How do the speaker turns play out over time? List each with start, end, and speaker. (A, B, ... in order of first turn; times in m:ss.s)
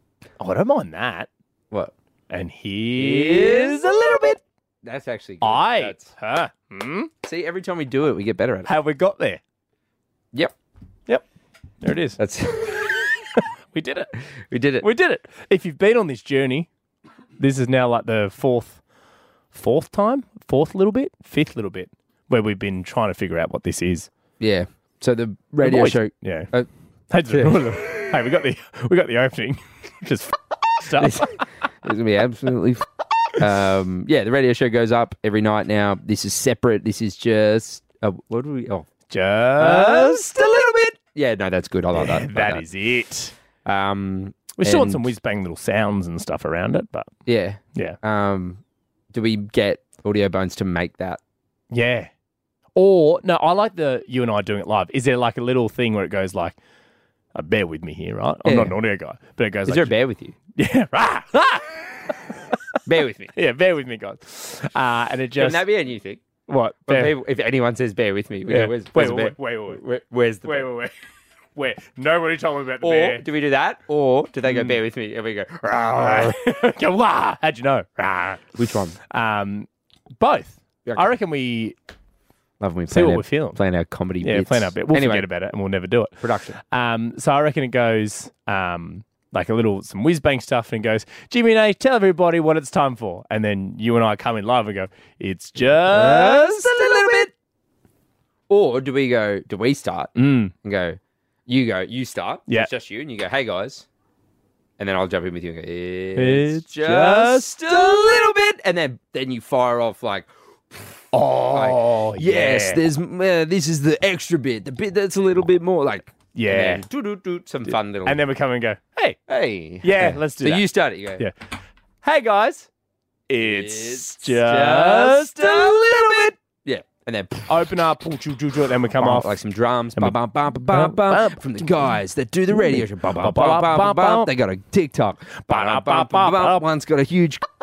0:00.4-0:01.3 A
0:02.3-0:04.4 A
0:02.9-0:04.3 B
0:04.8-0:06.0 B
0:05.4-0:07.1 A
0:07.2-0:08.7 B
0:08.6-0:09.4 A
0:11.8-0:12.2 A
0:12.2-0:13.1 B
0:13.4-0:14.2 A
0:14.5-0:14.9 B
0:14.8-0:16.7 A
0:17.4-0:18.8 A
0:19.5-0:24.1 A
0:24.4-0:26.7 B
0:25.6-0:26.5 A
0:27.1-0:31.4 A
0:27.3-0:27.6 B
0:30.9-0:32.8 B
0:33.4-0:38.8 B
0:39.1-0:40.2 A
0:39.6-0:42.6 B
0:41.9-0:43.3 A
0:43.6-0:45.1 B
0:44.6-0:47.1 A
0:47.3-0:48.6 B
0:49.1-0:51.2 B
0:51.7-0:52.1 A
0:52.8-0:56.6 A
0:57.3-0:59.9 A
0:58.4-0:58.8 B
0:59.6-1:00.4 B
1:00.6-1:02.6 A
1:02.8-1:03.3 B
1:03.3-1:05.7 A
1:05.4-1:06.2 B
1:06.5-1:07.1 A
1:06.8-1:10.7 B
1:08.5-1:09.8 A
1:10.4-1:10.9 A
1:11.6-1:13.2 A
1:12.8-1:16.4 B
1:14.4-1:14.7 A
1:15.9-1:19.7 A
1:18.6-1:19.0 B
1:20.2-1:21.8 A
1:22.6-1:25.3 B
1:22.9-1:23.6 A
1:24.2-1:37.3 A
1:26.2-1:26.6 B
1:35.6-1:37.3 B
1:38.5-1:43.9 B
1:40.2-1:40.5 A
1:44.8-1:58.2 B
1:46.1-1:47.8 A
1:51.1-1:52.8 A
1:56.3-1:56.8 A
1:57.7-1:59.2 A
1:59.3-2:01.3 B
1:59.8-2:01.3 A
2:02.0-2:02.7 A
2:03.3-2:06.3 A
2:03.4-2:07.7 B
2:07.5-2:09.4 A
2:08.9-2:17.4 B
2:09.9-2:12.0 A
2:12.5-2:14.3 A
2:15.5-2:16.6 A